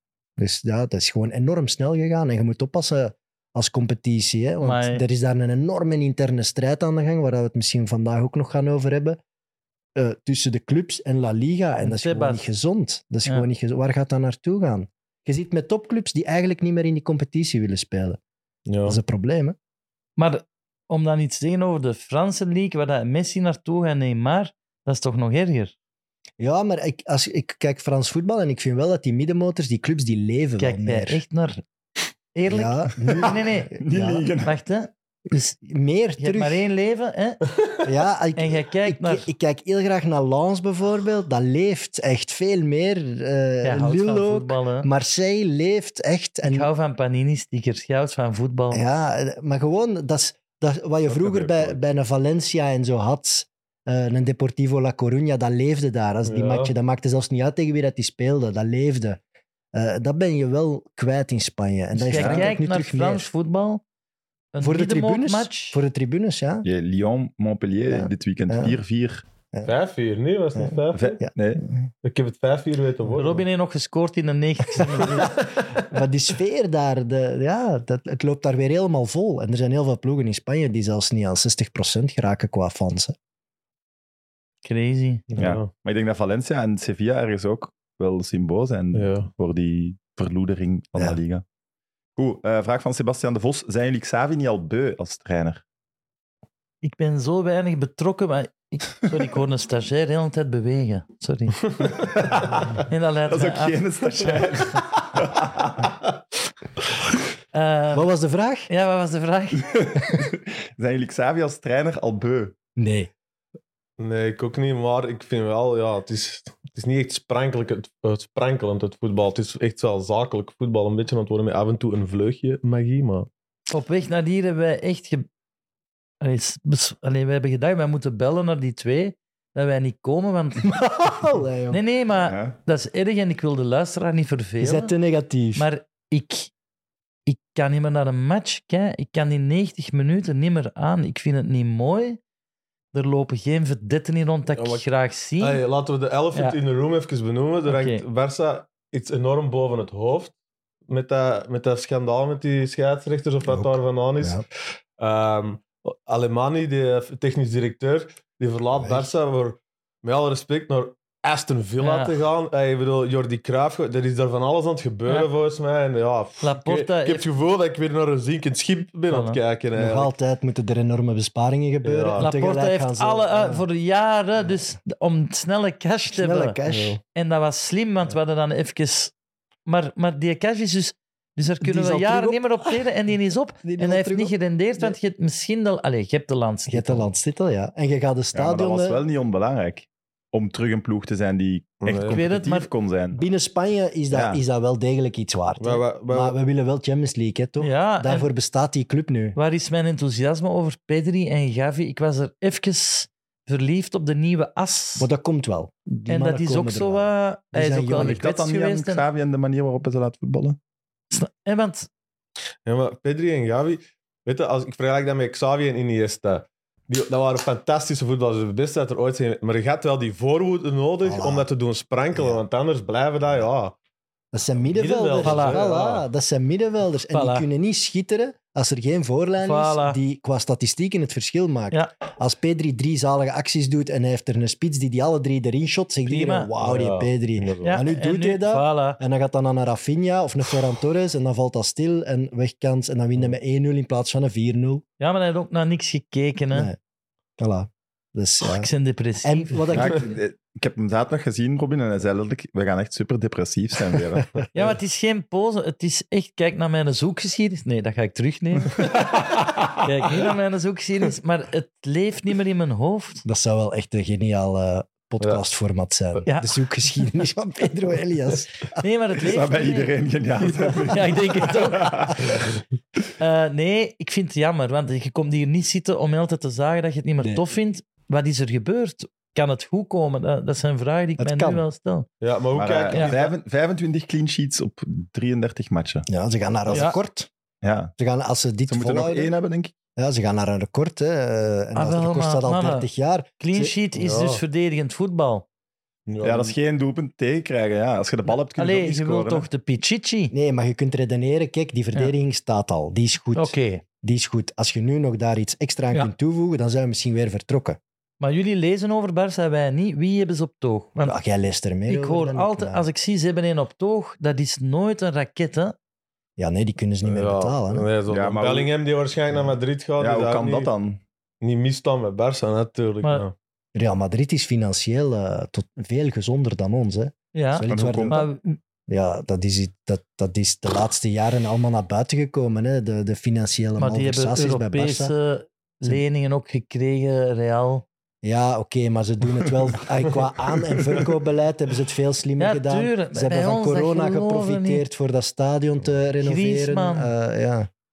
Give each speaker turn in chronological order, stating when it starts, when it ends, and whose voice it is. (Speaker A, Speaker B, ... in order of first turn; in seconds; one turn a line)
Speaker A: 0.4-9.2
Speaker B: 4.6-5.0
Speaker A: 10.0-18.2
Speaker B: 11.8-12.5
Speaker C: 18.7-19.0
Speaker A: 18.9-19.6
Speaker B: 20.2-25.7
Speaker A: 26.4-31.2
Speaker B: 30.6-31.6
Speaker B: 32.3-33.7
Speaker A: 32.5-34.3
Speaker D: 33.8-34.5
Speaker B: 34.4-35.5
Speaker A: 35.6-36.7
Speaker B: 36.2-37.4
Speaker A: 37.8-46.7
Speaker B: 38.4-39.3
Speaker B: 43.6-44.9
Speaker B: 46.4-48.8
Speaker A: 48.7-59.2
Speaker D: 51.1-51.8
Speaker C: 56.3-56.7
Speaker A: 59.7-63.3
Speaker B: 62.0-63.8
Speaker D: 62.1-62.5
Speaker B: 64.5-65.8
Speaker A: 64.6-66.7
Speaker D: 66.6-69.2
Speaker A: 67.9-68.8
Speaker C: 69.7-71.2
Speaker A: 70.6-71.3
Speaker D: 71.0-71.7
Speaker C: 72.0-73.5
Speaker B: 73.2-75.3
Speaker C: 75.1-75.5
Speaker A: 75.8-83.2
Speaker B: 84.6-85.2
Speaker C: 85.3-85.7
Speaker D: 85.4-91.4
Speaker C: 88.9-89.3
Speaker D: 92.2-95.6
Speaker B: 96.8-101.7
Speaker D: 102.0-105.9
Speaker B: 102.9-104.4
Speaker B: 107.5-108.1
Speaker A: 107.9-108.7
Speaker B: 108.7-109.7
Speaker D: 109.8-112.5
Speaker A: 112.8-113.1
Speaker C: 114.0-123.3
Speaker B: 123.7-125.3
Speaker B: 126.2-130.8
Speaker A: 130.6-131.8
Speaker B: 131.7-134.9
Speaker D: 132.2-132.6
Speaker A: 134.6-135.7
Speaker B: 135.6-136.5
Speaker B: 137.3-142.2
Speaker B: 142.9-145.6
Speaker C: 144.6-144.9
Speaker C: 145.4-150.3
Speaker B: 147.7-148.0
Speaker C: 150.9-154.4
Speaker A: 153.5-154.4
Speaker C: 155.0-170.1
Speaker A: 158.8-159.1
Speaker B: 161.8-162.2
Speaker B: 166.4-167.3
Speaker B: 169.1-169.4
Speaker A: 169.8-173.6
Speaker C: 171.8-172.3
Speaker B: 172.2-176.6
Speaker A: 176.1-177.0
Speaker C: 176.7-177.0
Speaker B: 177.1-179.1
Speaker B: 179.7-187.1
Speaker A: 181.6-182.8
Speaker A: 183.6-185.0
Speaker A: 186.7-189.0
Speaker D: 188.3-193.2
Speaker C: 191.8-192.2
Speaker B: 192.1-192.7
Speaker A: 193.1-199.4
Speaker D: 194.1-194.4
Speaker C: 195.6-196.4
Speaker B: 197.6-198.3
Speaker B: 199.4-205.1
Speaker A: 205.0-208.2
Speaker B: 206.1-209.0
Speaker D: 208.0-210.6
Speaker B: 211.1-211.9
Speaker C: 212.7-223.8
Speaker A: 221.0-221.5
Speaker A: 222.1-222.4
Speaker A: 224.3-244.8
Speaker C: 224.7-226.1
Speaker B: 225.2-225.6
Speaker B: 227.1-227.5
Speaker B: 229.4-230.0
Speaker B: 236.1-236.5
Speaker C: 236.6-237.8
Speaker B: 237.6-239.0
Speaker B: 245.0-246.7
Speaker A: 247.4-248.7
Speaker B: 248.4-249.7
Speaker A: 249.2-250.2
Speaker D: 249.7-254.4
Speaker B: 254.5-258.9
Speaker D: 258.9-259.8
Speaker B: 259.8-263.2
Speaker A: 263.2-268.5
Speaker B: 266.3-266.5
Speaker B: 268.8-269.9
Speaker D: 269.2-272.5
Speaker B: 270.9-272.1
Speaker B: 273.2-282.1
Speaker A: 281.2-281.6
Speaker C: 282.2-283.3
Speaker D: 282.5-286.1
Speaker A: 286.1-287.3
Speaker B: 286.7-287.0
Speaker D: 287.6-287.9
Speaker A: 288.0-289.3
Speaker D: 288.7-289.7
Speaker A: 290.0-293.8
Speaker B: 291.8-292.9
Speaker B: 293.4-295.4
Speaker C: 294.0-294.4
Speaker C: 296.1-296.6
Speaker D: 296.2-299.5
Speaker B: 298.3-300.3
Speaker A: 300.3-307.8
Speaker B: 303.4-303.8
Speaker B: 308.2-311.2
Speaker A: 311.0-312.9
Speaker B: 311.9-315.8
Speaker A: 316.4-317.9
Speaker C: 317.0-320.7
Speaker D: 318.1-318.7
Speaker D: 320.0-321.0
Speaker C: 321.4-323.3
Speaker A: 323.8-328.3
Speaker B: 327.3-328.6
Speaker D: 327.7-328.2
Speaker A: 328.9-335.1
Speaker B: 333.8-337.8
Speaker A: 338.2-347.7
Speaker B: 342.4-344.9
Speaker B: 346.2-347.1